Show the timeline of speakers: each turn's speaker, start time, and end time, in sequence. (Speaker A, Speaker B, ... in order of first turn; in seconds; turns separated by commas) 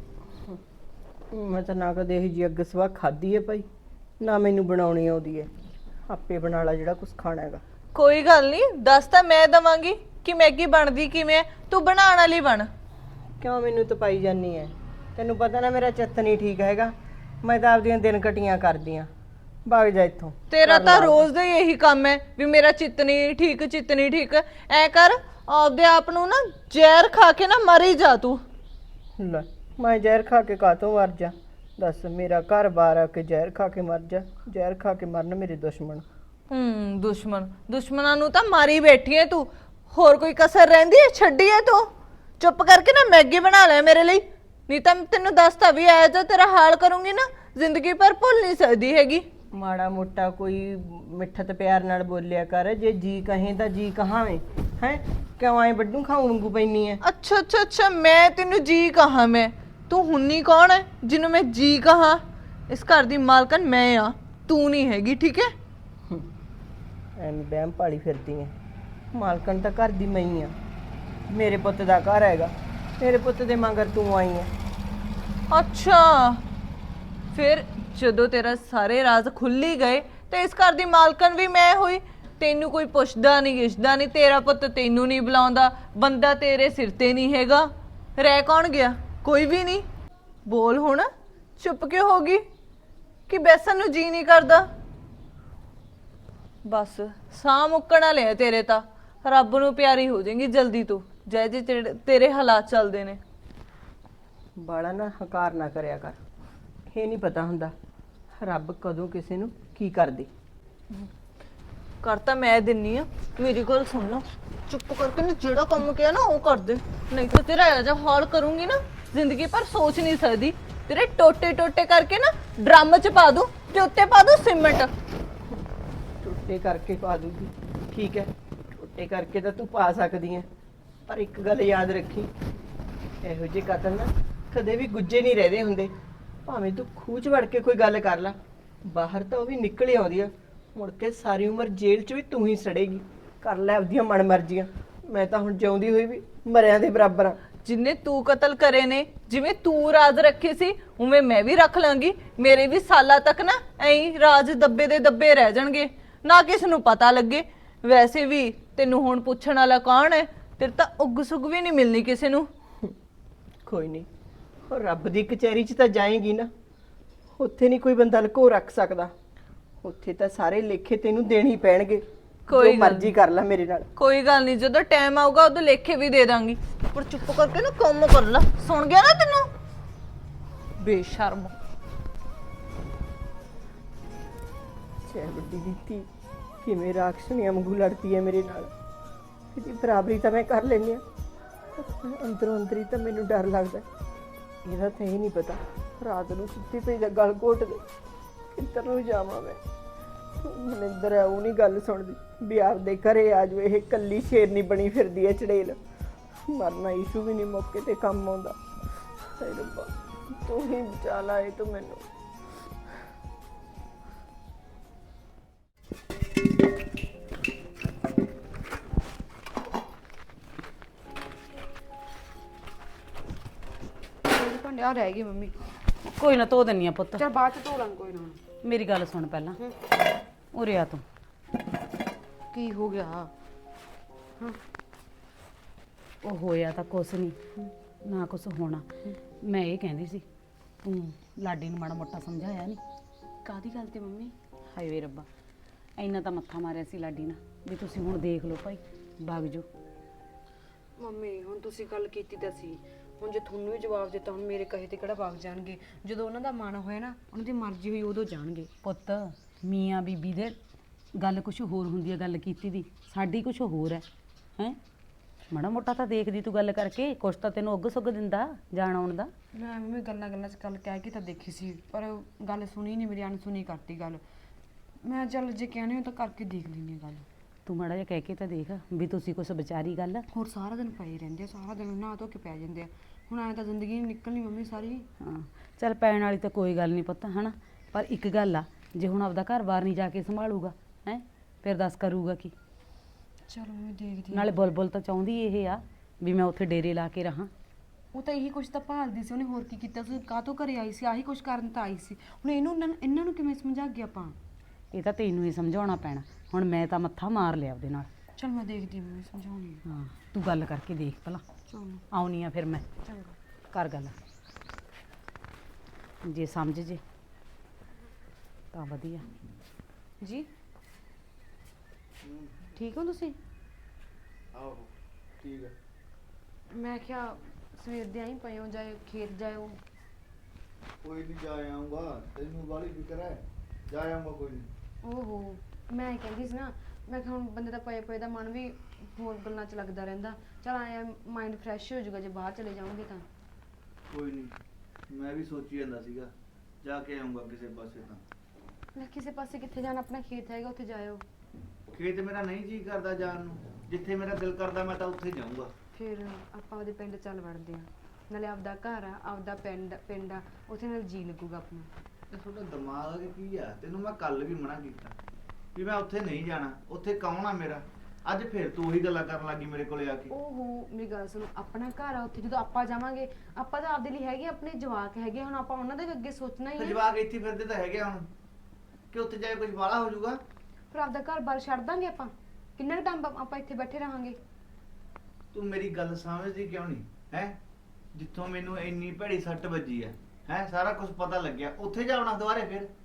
Speaker A: 1.3-3.7, Speaker A: 4.2-5.5, Speaker A: 6.1-7.6, Speaker B: 7.9-12.7, Speaker A: 13.4-19.1, Speaker A: 19.6-21.3, Speaker B: 20.5-28.4, Speaker A: 29.2-36.0, Speaker B: 36.5-49.2, Speaker A: 49.5-57.0, Speaker B: 57.0-65.5, Speaker A: 67.2-68.5, Speaker A: 69.1-70.5, Speaker A: 71.3-74.5, Speaker B: 75.5-76.4, Speaker B: 77.3-89.8, Speaker B: 90.5-92.4, Speaker B: 93.3-94.7, Speaker B: 96.6-103.2, Speaker A: 104.6-106.2, Speaker A: 106.9-107.7, Speaker A: 108.4-110.3, Speaker B: 112.0-124.9, Speaker A: 126.2-130.5, Speaker A: 131.1-132.3, Speaker A: 133.2-135.9, Speaker A: 136.4-147.4, Speaker B: 147.6-162.5, Speaker A: 163.6-164.1, Speaker A: 164.7-166.5, Speaker A: 167.3-169.1, Speaker A: 169.8-173.9, Speaker B: 172.5-173.1, Speaker B: 173.9-179.5, Speaker B: 180.8-181.5, Speaker A: 185.0-186.1, Speaker A: 186.6-188.7, Speaker A: 189.5-191.0, Speaker A: 191.8-193.8, Speaker A: 194.6-197.8, Speaker A: 198.5-199.6, Speaker A: 200.4-205.8, Speaker A: 206.5-208.6, Speaker A: 209.4-212.0, Speaker C: 224.3-225.6, Speaker D: 226.2-227.2, Speaker C: 227.2-228.4, Speaker D: 228.6-229.6, Speaker D: 230.5-231.0, Speaker C: 232.5-233.3, Speaker D: 236.2-237.4, Speaker D: 238.0-240.2, Speaker D: 240.8-242.8, Speaker C: 243.4-244.3, Speaker D: 244.7-245.3, Speaker D: 246.0-249.7, Speaker C: 251.0-258.7, Speaker D: 258.8-260.6, Speaker D: 261.1-264.0, Speaker D: 265.5-269.3, Speaker C: 269.5-274.2, Speaker C: 275.0-277.2, Speaker D: 277.6-280.2, Speaker C: 280.3-285.1, Speaker D: 285.2-292.5, Speaker C: 293.5-294.5, Speaker D: 294.3-297.5, Speaker C: 298.1-304.4, Speaker D: 304.9-308.1, Speaker C: 308.4-309.8, Speaker D: 309.8-311.4, Speaker C: 311.7-312.0, Speaker D: 312.1-312.8, Speaker C: 313.0-313.3, Speaker D: 313.7-314.1, Speaker D: 316.2-317.0, Speaker D: 318.7-319.3, Speaker C: 320.2-320.5, Speaker E: 322.2-322.7, Speaker C: 322.8-323.4, Speaker E: 324.5-324.9, Speaker E: 325.4-325.7, Speaker C: 326.7-329.8, Speaker E: 331.0-334.7, Speaker C: 335.0-343.2, Speaker E: 344.1-344.5, Speaker E: 345.1-346.3, Speaker E: 346.8-348.2, Speaker C: 348.9-351.2, Speaker E: 351.9-355.7, Speaker C: 355.9-361.9, Speaker E: 362.3-365.1, Speaker E: 365.7-370.3, Speaker C: 370.3-377.0, Speaker E: 376.8-378.3, Speaker E: 379.1-380.4, Speaker C: 380.9-384.4, Speaker E: 385.5-387.6, Speaker E: 388.1-392.9